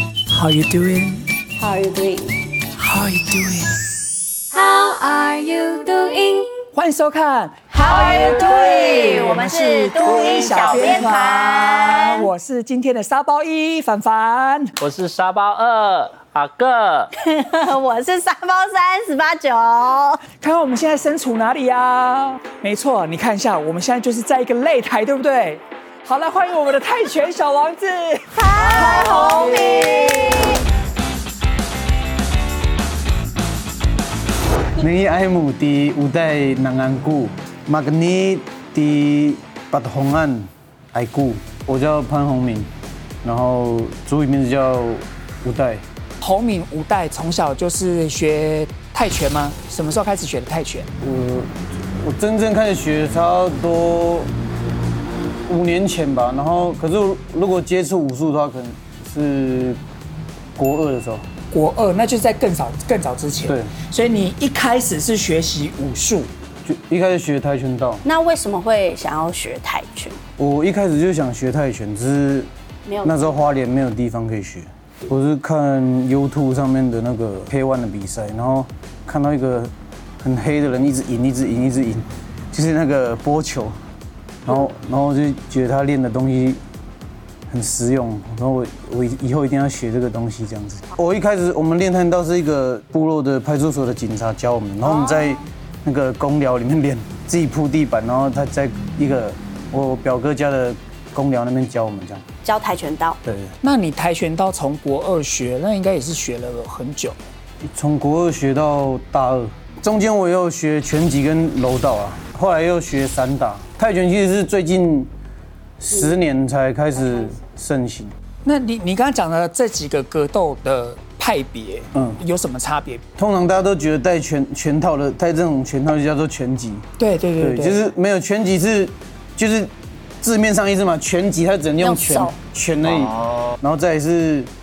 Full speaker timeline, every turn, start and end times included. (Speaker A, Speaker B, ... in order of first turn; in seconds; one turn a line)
Speaker A: 0.3-1.3
Speaker B: 1.6-2.3
Speaker A: 2.8-3.9
Speaker B: 4.5-6.5
Speaker A: 6.7-14.7
Speaker B: 7.7-12.3
Speaker C: 10.1-11.2
Speaker C: 14.8-17.1
Speaker B: 17.1-20.2
Speaker A: 20.4-30.5
Speaker B: 28.3-30.6
Speaker D: 34.8-42.7
Speaker D: 43.2-45.8
Speaker A: 46.2-50.9
Speaker D: 51.0-54.3
Speaker D: 55.5-59.8
Speaker D: 60.6-61.3
Speaker A: 61.5-66.3
Speaker D: 63.5-63.7
Speaker D: 66.7-68.0
Speaker B: 68.0-70.2
Speaker D: 70.4-72.5
Speaker B: 72.8-73.5
Speaker D: 73.0-83.8
Speaker D: 84.4-86.6
Speaker D: 87.5-102.2
Speaker B: 94.8-95.4
Speaker B: 102.4-103.2
Speaker D: 103.2-103.5
Speaker A: 103.6-107.2
Speaker D: 107.6-115.1
Speaker D: 115.8-118.1
Speaker A: 118.5-123.0
Speaker D: 121.9-122.2
Speaker D: 123.2-126.8
Speaker A: 127.0-127.8
Speaker D: 127.4-134.5
Speaker B: 131.8-132.3